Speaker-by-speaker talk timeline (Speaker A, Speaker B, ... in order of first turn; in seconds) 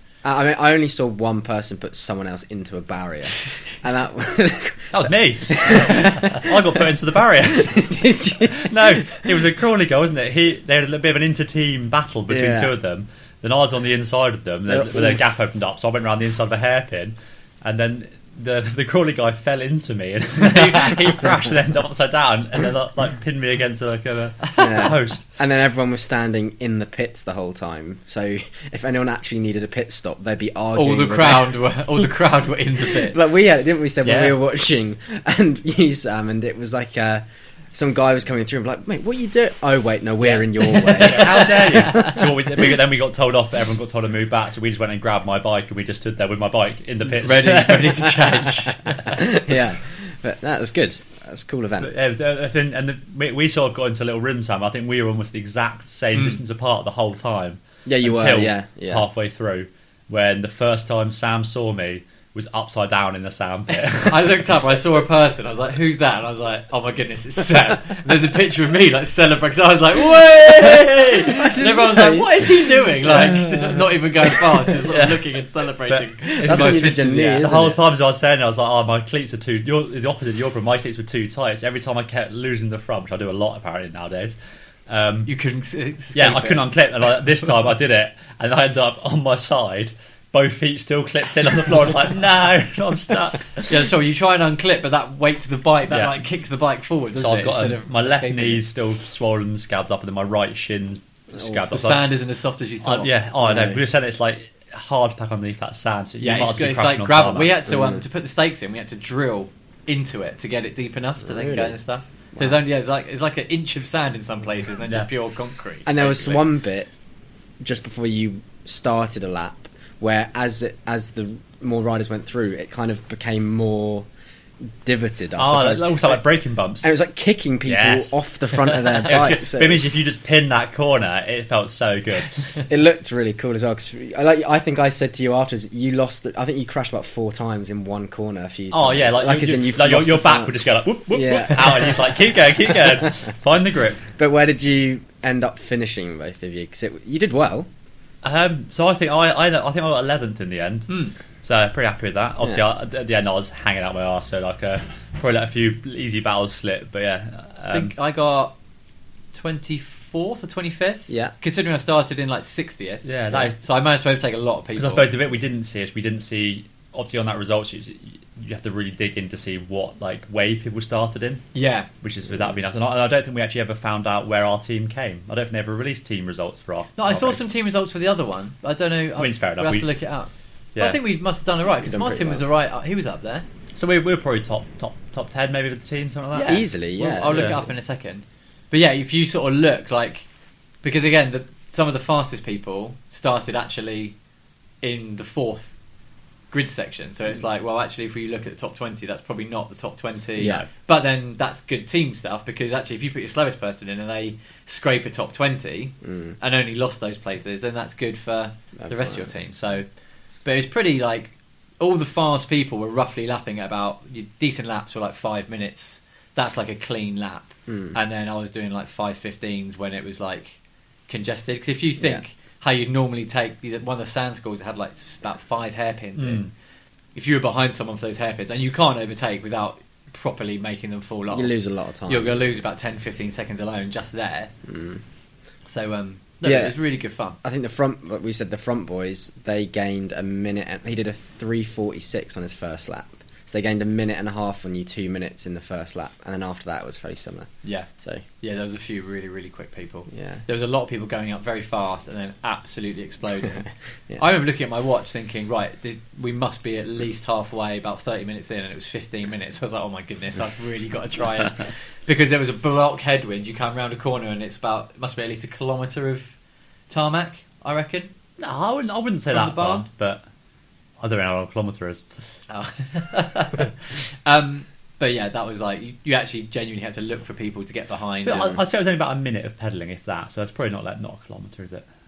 Speaker A: 0.2-6.8, 7.5-9.3, 12.3-12.7, 14.7-15.2, 24.6-31.6, 32.9-37.2, 37.7-42.2, 49.1-51.9, 57.9-59.0, 71.0-72.9, 76.4-77.8, 101.3-101.6, 103.4-103.8, 107.7-108.0, 111.2-111.8, 115.9-116.9, 117.6-124.1, 124.8-126.2, 126.8-130.0, 132.7-143.1, 144.2-147.7, 161.1-161.3, 181.8-182.4, 186.5-187.7, 200.4-200.7, 206.1-206.3, 208.8-209.3, 217.7-217.9, 231.3-232.4, 234.7-235.0, 236.4-236.8, 237.4-248.2, 250.1-250.4
Speaker B: 4.9-25.2, 34.0-34.4, 40.9-48.4, 51.8-64.4, 73.0-73.8, 74.9-75.2, 75.9-84.4, 84.9-85.3, 86.1-93.9, 95.9-96.2, 97.1-102.1, 102.8-107.5, 125.4-126.9, 127.6-132.6, 138.7-144.1, 148.2-157.9, 163.0-163.6, 164.8-171.5, 172.0-177.4, 179.2-179.9, 180.8-181.0, 183.8-186.6, 187.3-187.6, 226.2-226.5, 268.4-270.2, 271.0-272.0, 278.2-281.9
Speaker C: 30.8-33.2, 40.2-42.2, 47.2-49.2, 56.1-56.4, 63.7-77.5, 85.2-86.7, 93.7-98.6, 101.7-103.1, 106.2-116.5, 150.9-151.1, 157.7-158.5, 159.3-165.1, 171.5-171.9, 177.0-183.4, 186.3-190.2, 190.8-194.1, 194.8-195.7, 196.5-209.9, 210.4-226.5, 227.1-231.5, 232.1-234.5, 235.7-237.4, 247.6-253.7, 254.2-266.3, 266.9-268.1, 269.3-269.9, 272.5-278.6